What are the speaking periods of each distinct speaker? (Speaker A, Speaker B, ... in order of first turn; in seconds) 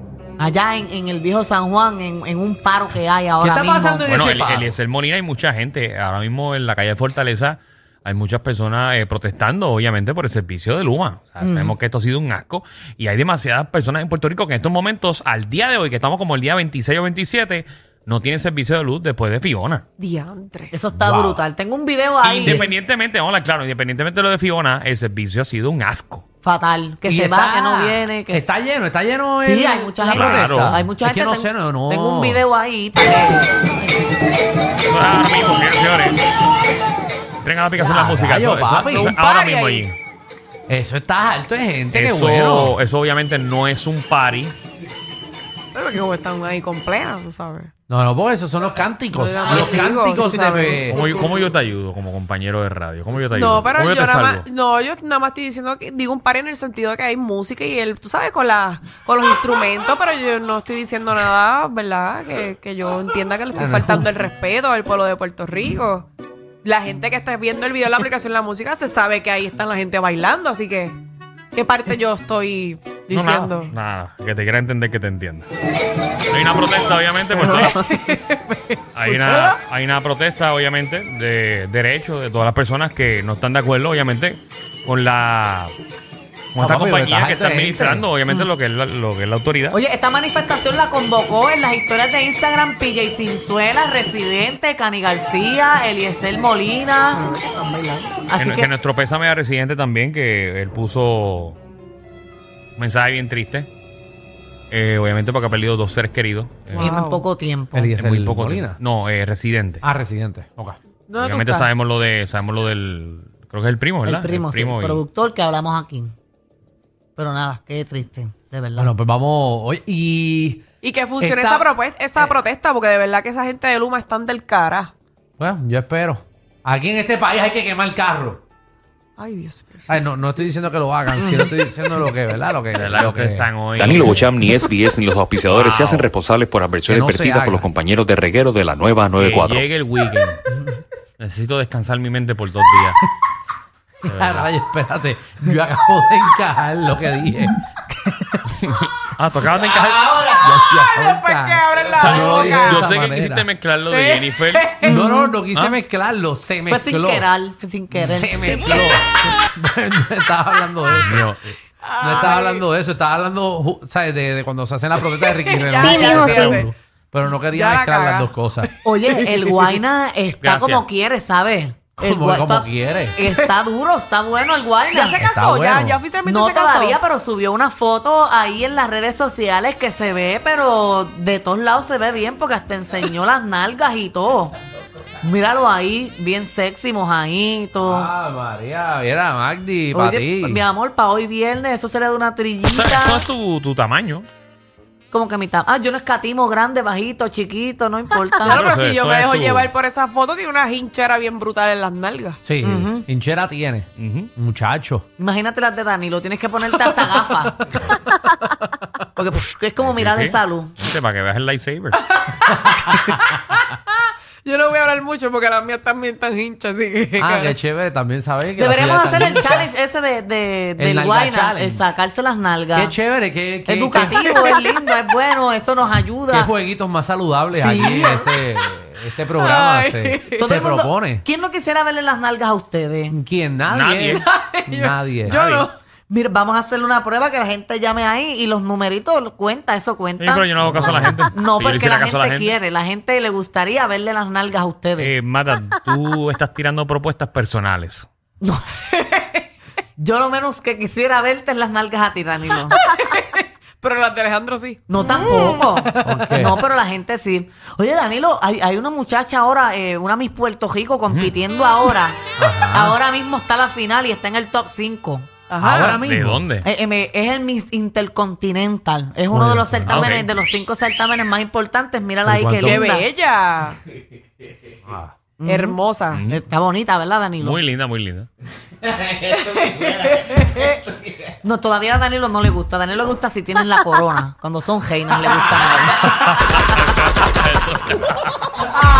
Speaker A: 0.4-4.1, 11.4-11.7, 20.7-22.7, 26.4-28.4, 29.4-33.6, 77.4-77.7, 89.7-98.7, 106.8-107.9, 114.0-116.1, 117.2-118.9, 131.2-131.5, 154.8-155.3, 156.7-158.8, 165.8-166.6, 168.8-175.2, 176.2-184.6, 185.2-188.1, 189.9-193.2, 195.1-198.6, 202.6-203.1, 205.2-207.6, 209.2-210.7, 218.6-222.9, 223.7-226.5, 227.5-228.3, 230.4-233.2, 236.1-245.1, 248.4-248.8, 250.0-252.8, 254.9-262.2, 262.7-265.3, 266.6-273.1, 275.4-275.8, 276.3-277.6, 281.4-286.7
Speaker B: 3.4-4.7, 27.0-32.4, 37.8-39.2, 40.7-42.8, 47.9-51.0, 63.5-64.1, 86.5-88.0, 107.7-108.8, 109.8-110.8, 118.8-120.6, 121.2-121.7, 125.4-128.4, 129.9-134.3, 136.9-137.7, 144.0-147.6, 150.2-153.4, 154.8-157.3, 157.9-161.3, 162.0-168.7, 172.0-173.2, 175.2-176.0, 187.8-190.6, 202.4-205.1, 212.7-213.2, 217.2-219.7, 220.8-221.9, 222.7-224.2, 226.3-231.2, 233.1-235.4, 256.0-256.6, 262.4-263.0, 265.6-266.5, 269.3-270.1, 272.2-272.8, 274.8-275.1
Speaker C: 4.1-19.8, 20.9-21.4, 22.2-26.2, 30.1-30.8, 34.9-36.2, 37.4-40.0, 41.9-44.5, 50.9-54.4, 73.1-75.5, 76.3-77.8, 78.9-85.7, 86.5-89.8, 98.4-101.6, 102.8-103.7, 104.7-107.0, 108.0-109.8, 111.2-115.0, 132.7-134.3, 135.5-136.1, 139.2-140.4, 141.2-143.0, 144.0-144.5, 148.5-150.3, 152.0-154.7, 160.9-161.6, 170.4-170.8, 192.6-194.3, 198.4-199.7, 203.9-204.3, 209.8-212.0, 233.7-234.2, 235.2-235.7, 240.2-242.5, 245.0-248.1, 261.1-261.3, 266.0-266.7, 269.9-270.3, 276.1-276.4, 277.4-278.3, 286.0-288.5
Speaker D: 20.0-20.7, 38.9-39.9, 45.7-47.7, 49.1-51.3, 53.3-66.1, 66.6-71.0, 71.5-73.7, 77.3-79.6, 106.7-107.2, 111.1-111.7, 120.8-124.9, 129.2-129.9, 150.6-153.0, 153.9-154.9, 158.4-159.0, 161.8-162.6, 165.1-166.7, 167.3-169.8, 174.9-177.0, 198.4-202.4, 207.0-208.0, 212.0-217.5, 223.9-224.6, 229.2-230.4, 234.1-235.7, 252.7-256.4, 265.5-266.1, 272.6-273.8, 275.4-276.2, 279.2-280.8
Speaker E: 133.8-139.7